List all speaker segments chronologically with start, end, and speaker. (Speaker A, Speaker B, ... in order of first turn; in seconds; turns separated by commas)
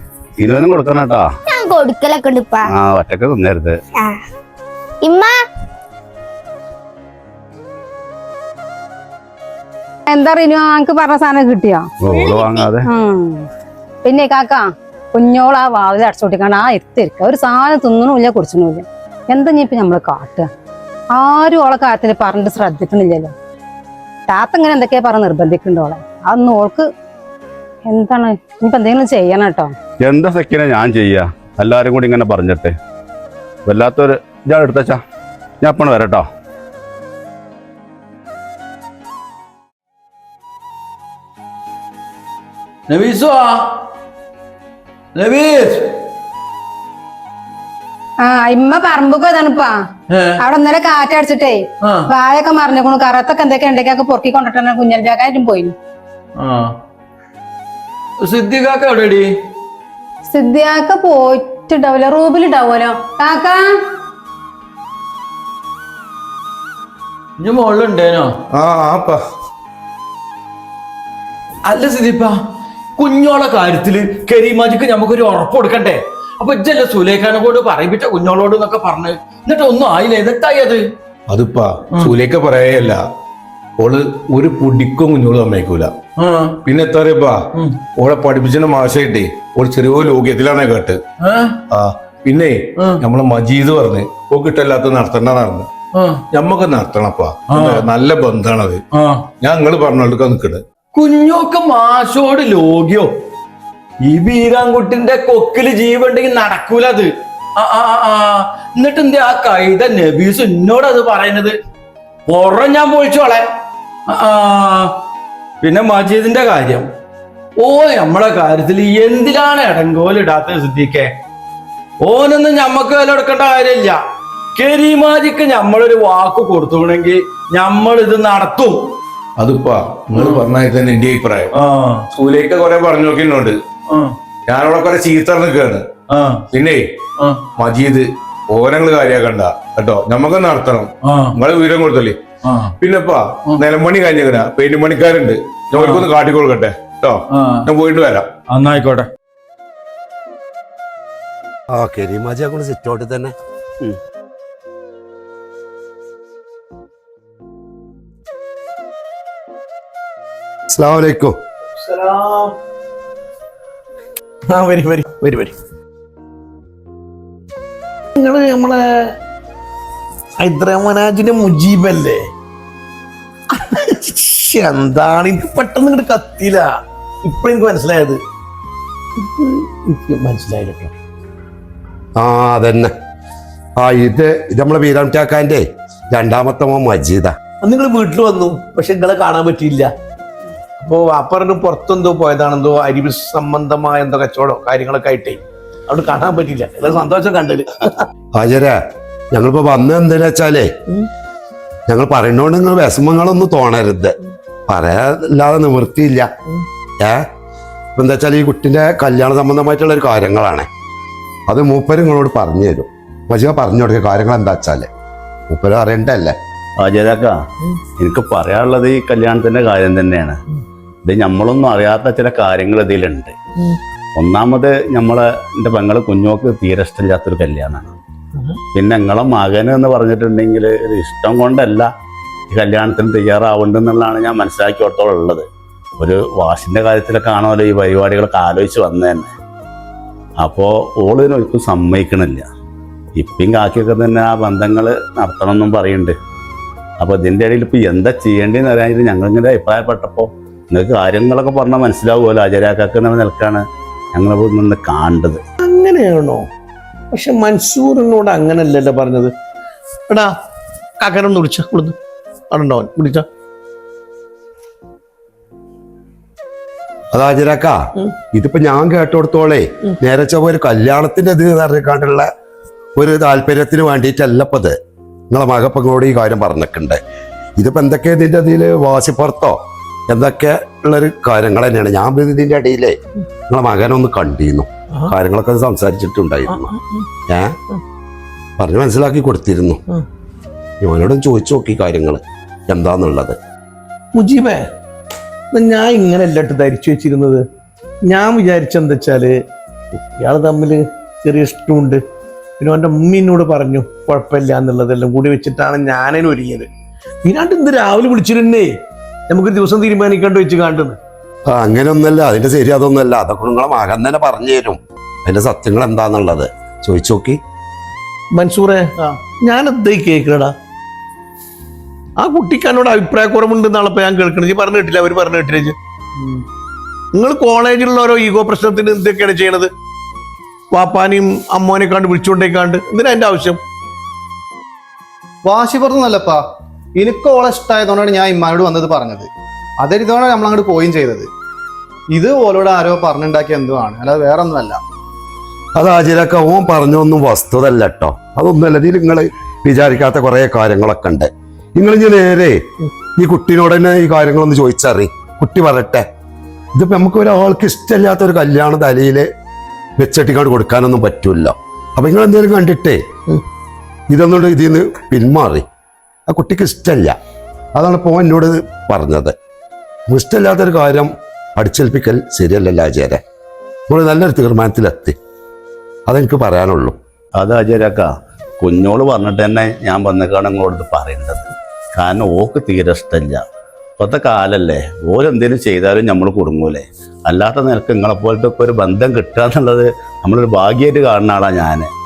Speaker A: 0.4-1.3, Speaker B: 1.5-2.6, Speaker A: 2.7-3.8, Speaker B: 5.0-5.3, Speaker C: 10.1-11.9, Speaker A: 12.0-12.9, Speaker B: 12.1-12.6, Speaker C: 12.9-13.5, Speaker C: 14.0-20.5, Speaker C: 21.1-23.3, Speaker C: 24.3-26.9, Speaker C: 27.9-29.7, Speaker A: 30.0-32.8, Speaker A: 33.6-35.0, Speaker A: 35.6-36.3, Speaker D: 42.9-43.7, Speaker D: 45.1-45.9, Speaker C: 48.2-49.8, Speaker D: 50.1-50.4, Speaker C: 50.4-55.7, Speaker D: 56.4-56.7, Speaker D: 58.2-59.3, Speaker C: 60.3-63.6, Speaker D: 67.4-68.3, Speaker E: 68.5-69.2, Speaker D: 71.7-72.4, Speaker D: 73.0-80.8, Speaker E: 81.3-83.0, Speaker E: 83.8-85.9, Speaker D: 86.2-86.6, Speaker E: 86.6-87.4, Speaker E: 88.0-91.0, Speaker D: 91.2-91.6, Speaker E: 91.7-95.7, Speaker D: 95.9-96.2, Speaker E: 96.3-98.8, Speaker D: 97.5-97.8, Speaker D: 98.9-99.2, Speaker E: 99.4-100.6, Speaker D: 100.9-103.1, Speaker D: 104.0-111.5, Speaker D: 112.3-113.5, Speaker D: 114.1-114.9, Speaker D: 115.6-116.9, Speaker D: 117.6-121.1, Speaker D: 122.0-124.0, Speaker D: 124.5-128.8, Speaker E: 129.4-131.5, Speaker D: 130.1-130.4, Speaker D: 131.5-132.1, Speaker E: 132.1-133.6, Speaker D: 133.9-134.1, Speaker E: 134.5-135.8, Speaker D: 136.1-136.4, Speaker E: 136.5-136.9, Speaker E: 137.6-142.2, Speaker D: 141.0-141.3, Speaker D: 142.4-142.7, Speaker E: 142.8-148.3, Speaker D: 145.8-146.1, Speaker D: 147.3-147.6, Speaker D: 148.5-149.1, Speaker F: 151.7-153.3, Speaker F: 160.7-161.4, Speaker G: 161.8-162.5, Speaker G: 164.5-165.5, Speaker G: 168.1-169.1, Speaker G: 170.4-172.2, Speaker G: 173.5-176.7, Speaker G: 177.2-178.2, Speaker G: 179.2-180.9, Speaker F: 182.2-182.9, Speaker F: 183.8-187.3, Speaker G: 187.6-189.9, Speaker G: 190.8-197.9, Speaker F: 198.3-198.8, Speaker F: 199.3-200.7, Speaker F: 201.9-204.1, Speaker F: 204.7-206.3, Speaker F: 207.9-210.7, Speaker F: 211.5-214.9, Speaker F: 215.5-216.3, Speaker A: 216.8-217.4, Speaker A: 218.0-220.4, Speaker A: 221.1-223.3, Speaker A: 224.2-227.9, Speaker A: 228.7-231.9, Speaker A: 232.5-235.4, Speaker A: 236.0-239.3, Speaker A: 240.4-242.5, Speaker A: 243.2-246.1, Speaker A: 247.0-253.6, Speaker A: 254.1-255.4, Speaker G: 255.6-256.4, Speaker G: 257.1-259.3, Speaker G: 261.0-261.9, Speaker G: 262.5-263.2, Speaker F: 267.1-272.3, Speaker F: 273.0-274.8, Speaker F: 275.3-277.0, Speaker F: 277.6-283.0, Speaker F: 283.5-286.7, Speaker G: 286.5-287.0, Speaker F: 287.3-287.6, Speaker F: 288.6-289.8, Speaker F: 290.8-293.4, Speaker G: 294.1-294.6, Speaker G: 295.5-297.4, Speaker G: 298.1-299.3, Speaker G: 299.9-302.0, Speaker G: 302.6-306.7, Speaker G: 307.2-308.7, Speaker G: 309.3-311.0, Speaker F: 311.5-317.4, Speaker G: 318.3-320.5, Speaker G: 322.2-326.4, Speaker G: 327.1-329.7, Speaker G: 330.7-333.6, Speaker H: 335.4-336.4, Speaker H: 337.0-339.3, Speaker H: 339.8-341.3, Speaker H: 342.1-344.8, Speaker F: 345.8-352.6, Speaker F: 353.1-356.1, Speaker F: 356.7-359.3, Speaker F: 360.0-363.0, Speaker F: 364.1-365.6, Speaker F: 366.3-367.1, Speaker F: 367.7-369.3, Speaker F: 370.1-373.2, Speaker F: 373.9-375.1, Speaker F: 376.1-376.9, Speaker A: 377.4-383.4, Speaker A: 384.0-391.9